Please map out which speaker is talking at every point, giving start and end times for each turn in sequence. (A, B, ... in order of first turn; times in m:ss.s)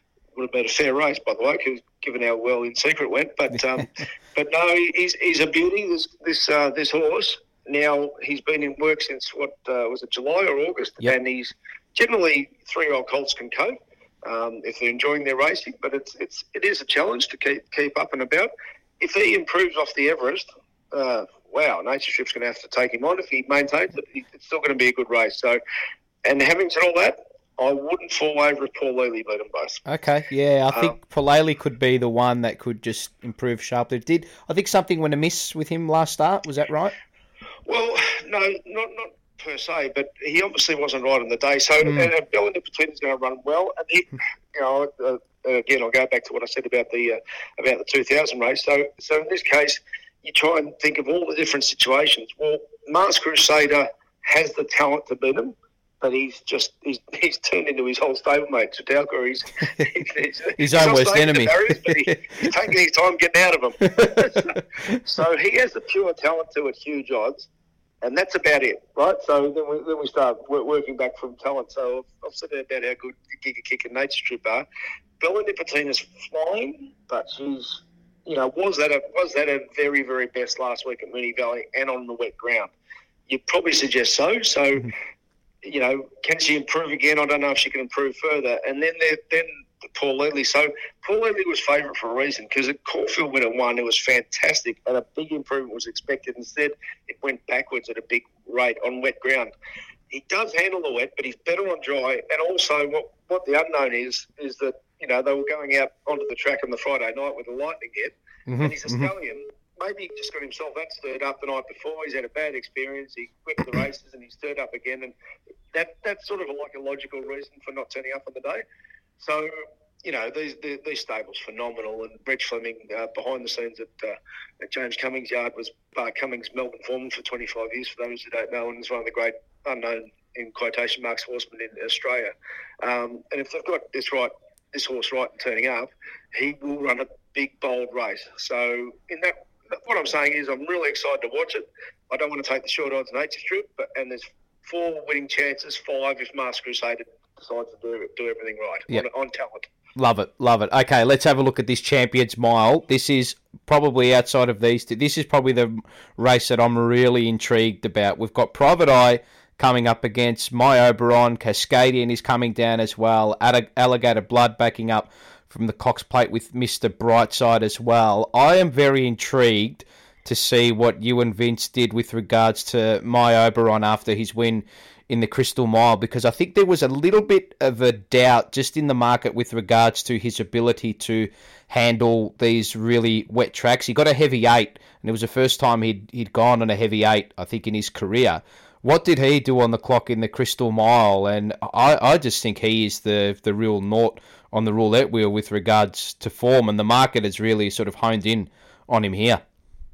0:00.3-0:25.6 A
0:26.2-0:29.8 A
0:29.8-0:36.9 B
0:37.6-1:07.5 A
0:41.8-0:42.1 B
1:00.6-1:02.1 B
1:03.9-1:04.4 B
1:08.0-1:14.6 A
1:15.2-1:22.7 A
1:23.3-1:24.9 A
1:25.6-1:39.5 A
1:40.1-1:55.1 A
1:48.5-1:49.1 B
1:55.7-1:58.6 A
1:59.2-1:59.5 A
2:00.0-2:29.7 A
2:30.0-3:19.4 B